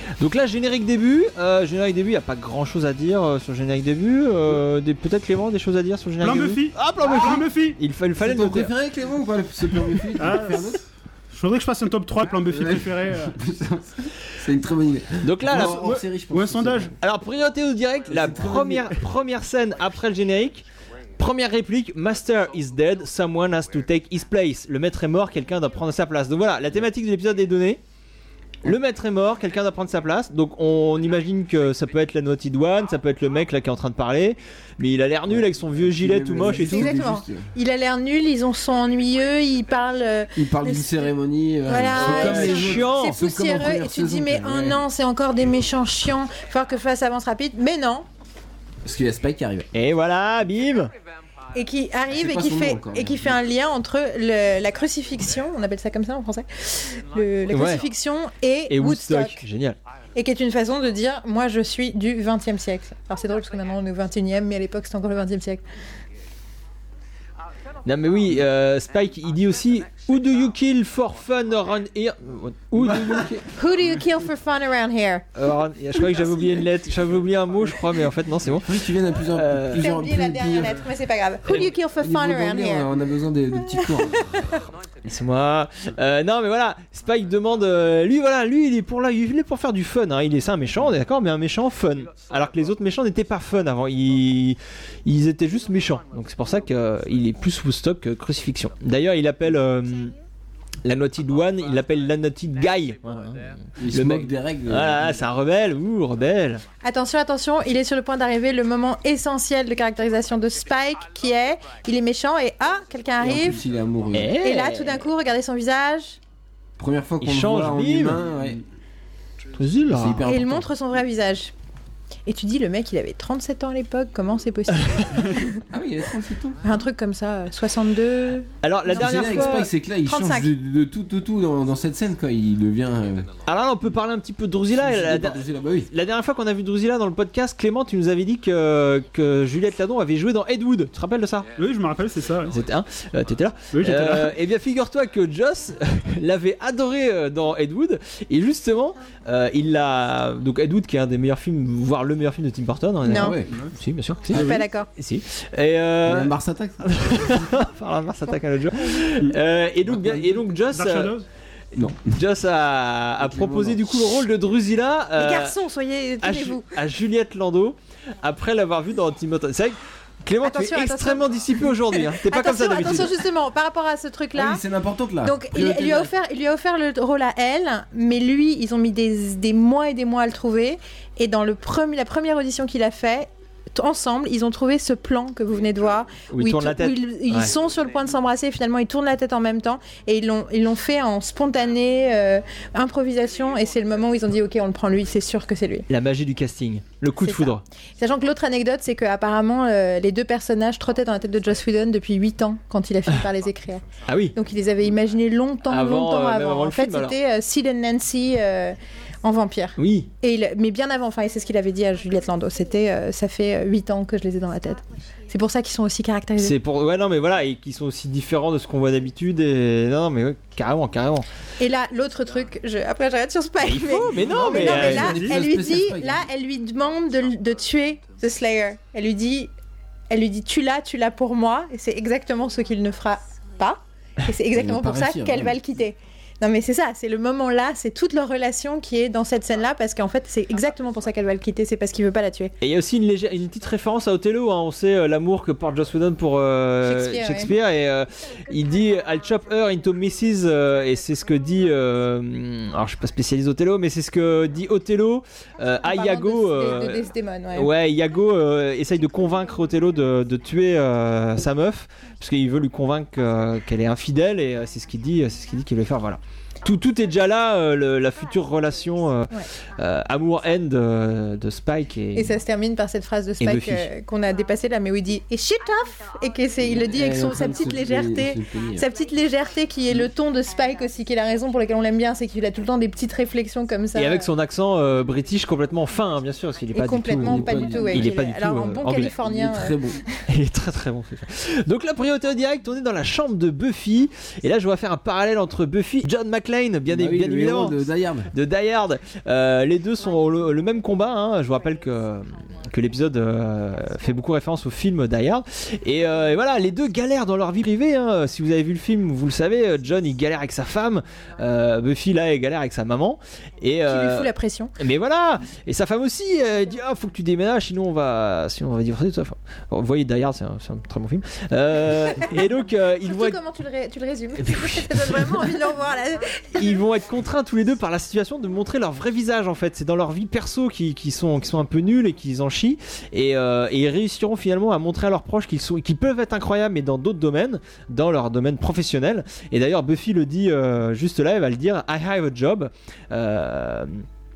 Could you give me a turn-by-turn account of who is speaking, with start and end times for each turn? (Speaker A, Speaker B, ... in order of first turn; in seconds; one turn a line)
Speaker A: 0.2-8.7
Speaker B: 6.2-7.8
Speaker C: 8.2-10.8
Speaker B: 10.1-13.3
Speaker C: 12.4-16.9
Speaker A: 15.2-16.0
Speaker B: 15.5-16.9
Speaker A: 17.0-20.6
Speaker C: 18.1-19.0
Speaker A: 21.2-27.8
Speaker A: 28.6-36.9
Speaker C: 35.3-37.5
Speaker D: 36.5-41.1
Speaker C: 40.3-44.8
Speaker D: 41.6-48.1
Speaker A: 41.9-43.2
Speaker C: 48.8-49.7
Speaker A: 49.7-50.9
Speaker D: 51.5-59.4
Speaker C: 52.1-53.4
Speaker A: 57.5-57.8
Speaker A: 58.7-59.8
Speaker D: 60.1-65.6
Speaker A: 67.8-73.4
Speaker C: 72.8-73.4
Speaker D: 73.5-75.2
Speaker A: 75.3-79.9
Speaker C: 78.6-80.8
Speaker D: 79.8-82.9
Speaker C: 82.0-84.3
Speaker D: 83.6-84.5
Speaker A: 85.0-100.1
Speaker A: 100.8-106.6
Speaker C: 103.8-105.2
Speaker D: 106.8-113.6
Speaker C: 113.2-114.3
Speaker A: 114.1-115.0
Speaker D: 114.3-116.2
Speaker C: 116.8-118.6
Speaker A: 117.2-118.2
Speaker A: 119.5-120.2
Speaker C: 119.9-120.7
Speaker D: 120.2-121.5
Speaker D: 122.2-125.6
Speaker A: 124.7-125.1
Speaker C: 125.7-126.6
Speaker D: 126.6-130.5
Speaker A: 128.6-129.7
Speaker C: 128.9-133.3
Speaker A: 133.4-141.5
Speaker C: 134.7-135.9
Speaker B: 141.6-142.5
Speaker A: 142.4-161.2
Speaker B: 143.7-144.3
Speaker D: 153.0-153.4
Speaker C: 153.1-153.5
Speaker B: 153.5-153.7
Speaker D: 154.3-154.9
Speaker B: 154.3-154.6
Speaker C: 156.0-157.5
Speaker B: 160.1-161.2
Speaker C: 161.7-162.1
Speaker A: 161.9-165.6
Speaker C: 163.2-164.1
Speaker D: 165.2-166.7
Speaker A: 166.2-173.2
Speaker D: 170.4-174.6
Speaker C: 174.3-176.1
Speaker D: 175.2-195.9
Speaker A: 186.3-187.5
Speaker A: 195.9-197.6
Speaker D: 197.2-203.8
Speaker A: 204.1-204.3
Speaker D: 204.3-216.6
Speaker A: 205.7-207.2
Speaker A: 209.8-210.1
Speaker A: 216.4-221.3
Speaker D: 221.6-229.5
Speaker A: 223.6-225.1
Speaker C: 224.1-226.3
Speaker B: 224.8-225.4
Speaker D: 230.1-242.5
Speaker C: 234.5-235.6
Speaker A: 242.6-272.4
Speaker D: 246.8-247.5
Speaker D: 255.8-257.7
Speaker D: 272.1-284.3
Speaker A: 273.4-273.9
Speaker C: 276.6-278.9
Speaker A: 283.9-289.1
Speaker D: 286.7-289.8
Speaker C: 287.0-288.1
Speaker C: 289.2-290.0
Speaker A: 290.3-297.8
Speaker C: 296.9-298.3
Speaker A: 298.3-323.4
Speaker D: 313.9-314.7
Speaker D: 323.0-326.8
Speaker A: 324.4-325.6
Speaker A: 326.6-344.0